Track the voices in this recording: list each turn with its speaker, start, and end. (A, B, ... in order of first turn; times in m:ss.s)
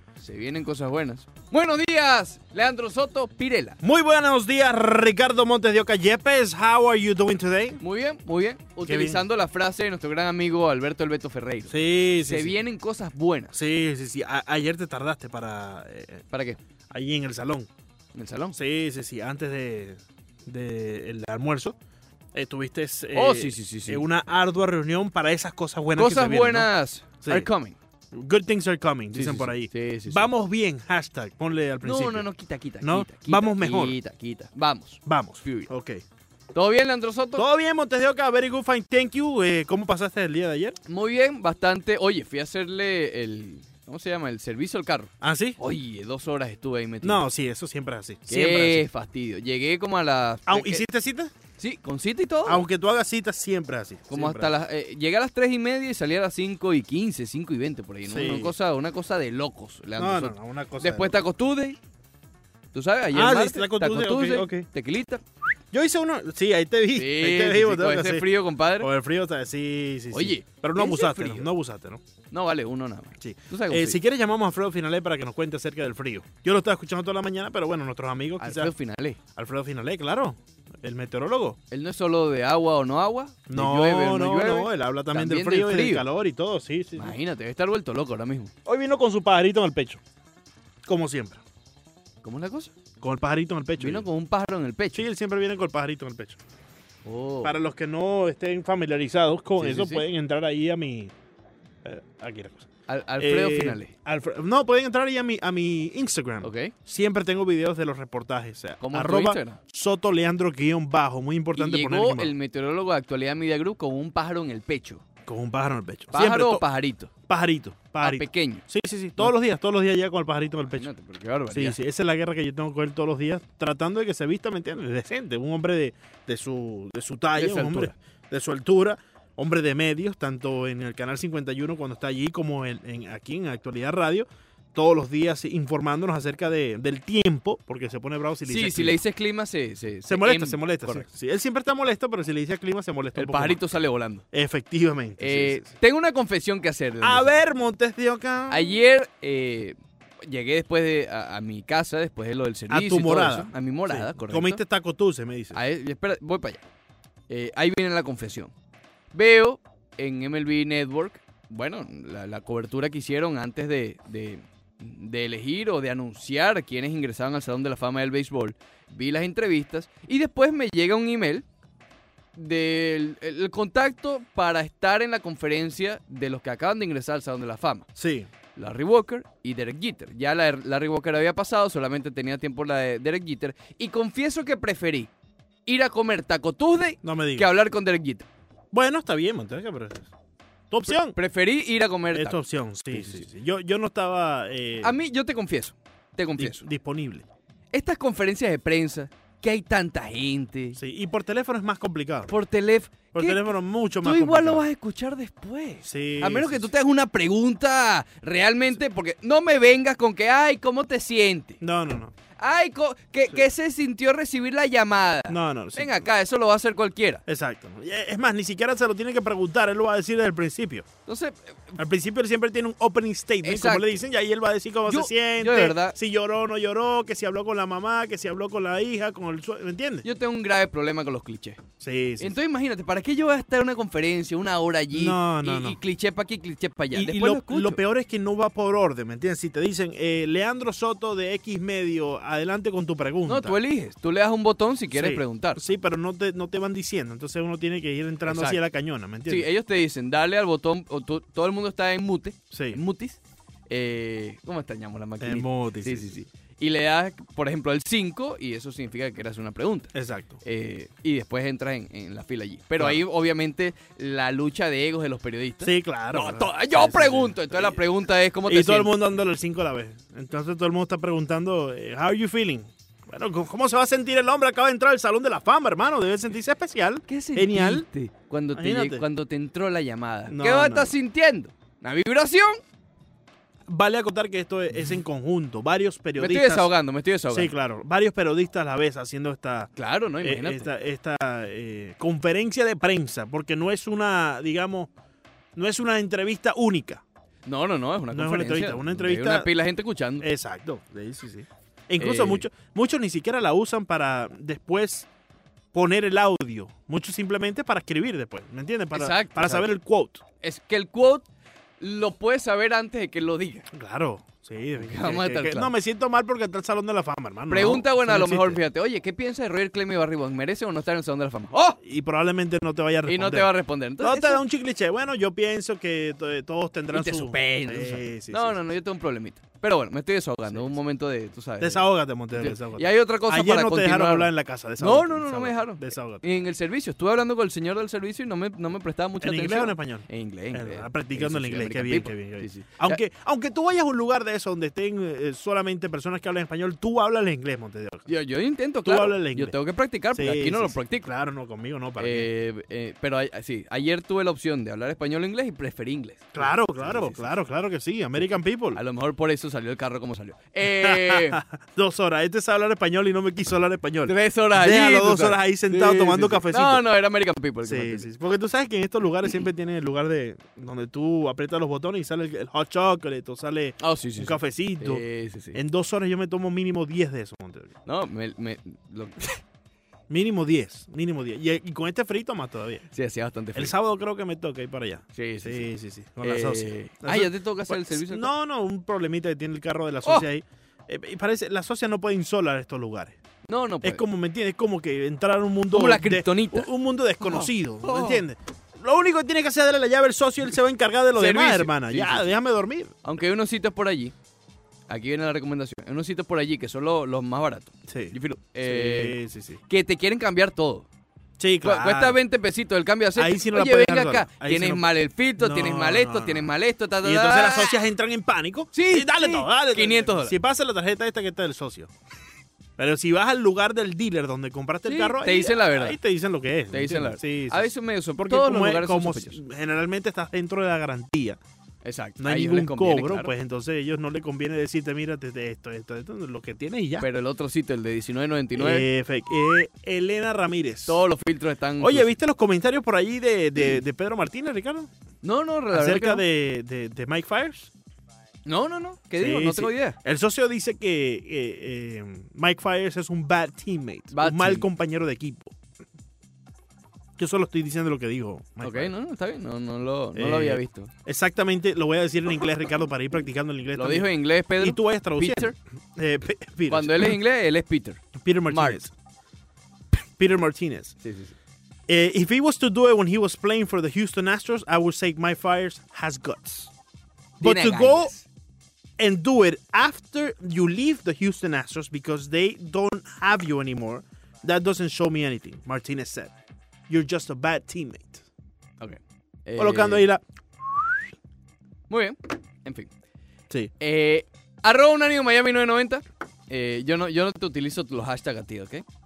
0:00.2-0:03.8 A
0:03.8-0:07.8 B
0:07.8-0:13.5 A
0:08.8-0:09.2 B
0:11.7-0:12.6 B
0:13.5-0:16.2 B
0:16.3-0:16.6 A
0:16.9-0:17.7 B
0:18.1-0:18.6 A
0:18.5-0:21.8 B
0:22.3-0:26.7 B
0:23.1-0:24.0 A
0:26.0-0:27.8 A
0:27.2-0:27.5 B
0:28.1-0:32.3 B
0:29.1-0:30.3 A
0:31.8-0:35.7 A
0:32.8-0:34.0 B
0:35.0-0:36.0 B
0:36.5-0:37.4 A
0:37.4-0:40.8 B
0:40.8-0:47.2 A
0:45.2-0:45.6 B
0:47.0-0:48.8 B
0:48.3-0:50.8 A
0:50.5-0:51.3 B
0:51.6-0:52.6 A
0:52.4-0:54.5 B
0:54.1-1:01.8 A
0:58.1-0:58.5 B
1:00.0-1:01.1 B
1:02.7-1:05.2 A
1:03.1-1:04.7 B
1:05.7-1:12.0 B
1:06.9-1:08.9 A
1:10.1-1:11.5 A
1:12.3-1:14.0 A
1:13.2-1:18.7 B
1:18.4-1:19.2 A
1:19.4-1:21.6 B
1:21.7-1:26.0 A
1:23.5-1:27.2 B
1:27.0-1:28.5 A
1:28.6-1:30.0 B
1:30.8-1:31.4 B
1:32.2-1:32.7 A
1:33.0-1:34.1 B
1:33.8-1:35.0 A
1:34.9-1:36.4 B
1:37.0-1:37.5 A
1:37.4-1:41.1 B
1:39.6-1:40.0 A
1:41.8-1:52.3 B
1:42.9-1:43.9 A
1:46.4-1:46.7 A
1:48.8-1:49.6 A
1:51.5-1:55.0 A
1:55.2-1:56.6 B
1:56.1-1:57.1 A
1:57.3-2:00.9 B
1:58.0-1:58.6 A
2:00.7-2:01.8 A
2:01.5-2:19.0 B
2:07.3-2:07.9 A
2:18.4-2:21.0 A
2:20.1-2:23.6 B
2:23.1-2:24.2 A
2:24.3-2:25.7 B
2:25.2-2:27.3 A
2:27.0-2:28.7 B
2:28.5-2:34.6 A
2:32.7-2:35.6 B
2:35.5-2:36.6 A
2:37.3-2:38.5 A
2:39.1-2:51.4 A
2:52.3-2:57.9 A
2:58.0-2:58.3 B
2:58.5-3:05.1 A
3:05.6-3:08.3 A
3:07.0-3:07.5 B
3:08.7-3:10.1 B
3:10.7-3:11.2 B
3:10.8-3:12.4 A
3:12.1-3:15.0 B
3:12.9-3:13.2 A
3:14.8-3:16.6 A
3:16.4-3:17.2 B
3:17.7-3:20.8 A
3:20.8-3:22.3 B
3:22.3-3:23.4 A
3:23.1-3:24.6 B
3:24.0-3:31.6 A
3:25.8-3:26.7 B
3:31.6-3:32.1 B
3:32.4-3:37.2 A
3:35.3-3:36.0 B
3:37.3-3:40.9 B
3:41.1-3:41.7 A
3:41.8-3:50.0 B
3:43.4-3:44.0 A
3:44.9-3:46.0 A
3:50.0-3:51.6 A
3:51.8-3:52.4 B
3:52.2-3:57.8 A
3:54.9-3:55.8 B
3:56.9-4:03.6 B
4:03.2-4:05.6 A
4:04.9-4:09.5 B
4:08.2-4:08.6 A
4:09.3-4:13.2 A
4:12.5-4:12.8 B
4:13.7-4:19.9 A
4:15.2-4:16.1 B
4:19.9-4:20.4 B
4:20.4-4:28.9 A
4:25.6-4:27.8 B
4:28.5-4:37.8 B
4:37.1-4:42.6 A
4:38.5-4:39.0 B
4:40.3-4:40.9 B
4:43.7-4:46.7 B
4:46.2-4:47.5 A
4:47.3-4:54.9 B
4:49.8-4:50.7 A
4:55.5-4:57.0 B
4:57.4-5:00.3 A
4:58.1-4:59.5 B
5:00.2-5:05.1 B
5:02.0-5:02.5 A
5:05.7-5:10.2 B
5:08.9-5:09.7 A
5:10.4-5:11.2 A
5:11.8-5:13.7 A
5:13.7-5:18.6 B
5:14.8-5:15.7 A
5:17.5-5:21.8 A
5:21.8-5:28.6 B
5:23.0-5:24.4 A
5:26.9-5:43.0 A
5:31.6-5:36.2 B
5:39.2-5:48.1 B
5:48.1-5:51.1 A
5:48.8-5:49.6 B
5:50.1-5:52.3 B
5:52.0-5:57.2 A
5:56.3-5:58.8 B
5:58.7-6:01.4 A
6:00.8-6:06.8 B
6:04.0-6:08.0 A
6:07.6-6:17.7 B
6:13.8-6:15.6 A
6:17.8-6:19.4 A
6:20.1-6:22.8 B
6:22.9-6:23.7 A
6:23.5-6:33.2 B
6:25.1-6:25.7 A
6:26.2-6:28.3 A
6:33.5-6:34.0 A
6:33.8-6:42.9 B
6:35.7-6:36.7 A
6:37.2-6:38.2 A
6:41.2-6:42.3 A
6:43.0-6:44.1 A
6:44.9-6:50.8 A
6:47.9-6:49.6 B
6:51.4-6:52.2 B
6:51.6-6:57.7 A
6:53.2-6:54.8 B
6:55.4-6:56.5 B
6:57.0-7:01.9 B
6:58.7-7:00.3 A
7:02.8-7:11.4 B
7:04.8-7:06.0 A
7:06.7-7:09.4 A
7:11.8-7:13.3 A
7:12.2-7:17.0 B
7:17.0-7:18.9 A
7:18.6-7:21.0 B
7:20.9-7:22.1 A
7:21.8-7:24.9 B
7:25.2-7:26.2 A
7:25.7-7:27.7 B
7:28.4-7:30.0 A
7:29.2-7:35.5 B
7:34.1-7:34.7 A
7:37.2-7:38.9 B
7:38.6-7:40.9 A
7:40.1-7:47.2 B
7:43.7-7:45.5 A
7:46.7-7:48.8 A
7:48.1-7:48.9 B
7:49.9-7:51.0 B
7:51.0-7:51.3 A
7:51.9-7:56.7 B
7:57.4-7:58.1 B
7:57.4-7:58.2 A
7:59.0-8:06.3 B
8:06.9-8:08.2 B
8:08.8-8:10.1 A
8:09.6-8:11.1 B
8:11.9-8:12.9 A
8:13.8-8:18.8 A